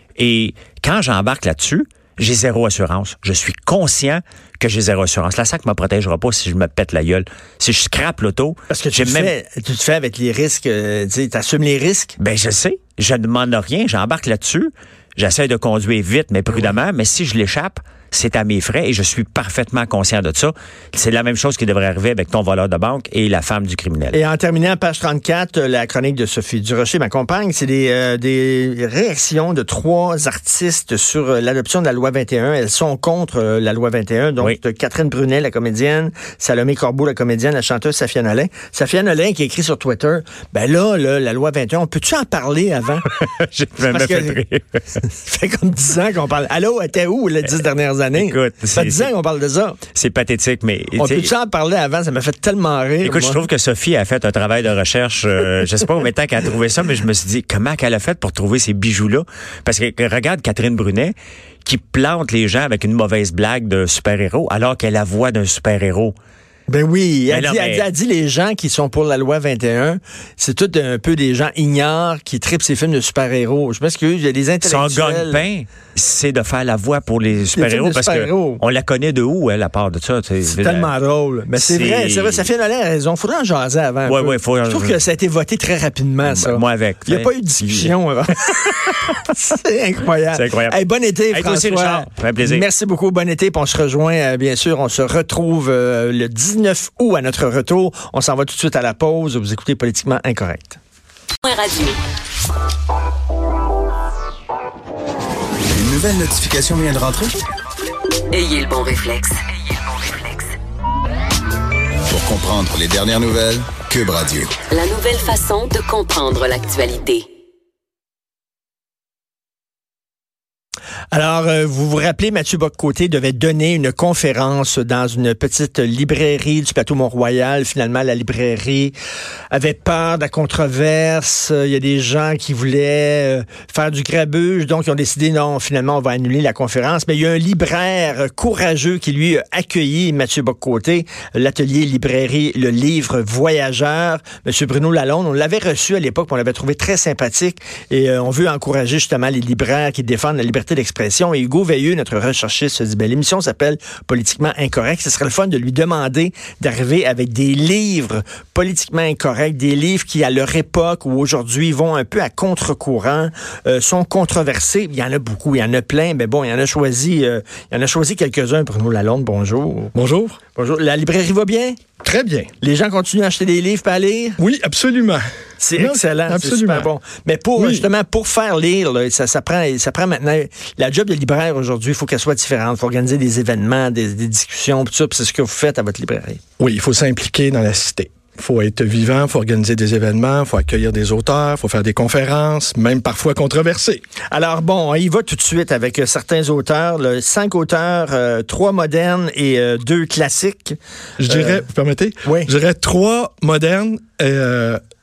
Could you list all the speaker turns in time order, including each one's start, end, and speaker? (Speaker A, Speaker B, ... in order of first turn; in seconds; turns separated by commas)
Speaker A: 0.2-9.3, Speaker B: 8.7-12.2, Speaker A: 12.2-24.2, Speaker B: 24.1-43.1, Speaker A: 43.1-44.8, Speaker B: 43.8-44.4, Speaker B: 45.0-49.8, Speaker A: 48.1-49.1, Speaker A: 49.9-51.3, Speaker B: 51.0-53.4, Speaker A: 53.0-66.2, Speaker B: 66.7-75.4, Speaker A: 67.3-67.9, Speaker A: 74.6-80.9, Speaker B: 77.5-78.6, Speaker B: 80.5-88.5, Speaker A: 81.5-82.5, Speaker A: 84.1-85.0, Speaker A: 86.2-87.9, Speaker A: 88.5-89.2, Speaker B: 89.2-100.8, Speaker A: 90.3-90.8, Speaker A: 91.3-92.7, Speaker C: 101.4-102.0, Speaker D: 105.7-107.4, Speaker C: 108.3-110.5, Speaker D: 112.1-114.6, Speaker C: 114.7-117.3, Speaker B: 121.1-128.9, Speaker B: 129.5-169.9, Speaker E: 169.9-170.4, Speaker B: 170.6-171.8, Speaker E: 172.0-172.5, Speaker B: 172.6-174.4, Speaker E: 174.4-175.2, Speaker B: 175.6-186.4, Speaker E: 175.8-176.9, Speaker E: 177.6-177.9, Speaker E: 186.6-194.0, Speaker B: 194.3-201.6, Speaker E: 201.2-204.8, Speaker B: 202.2-202.5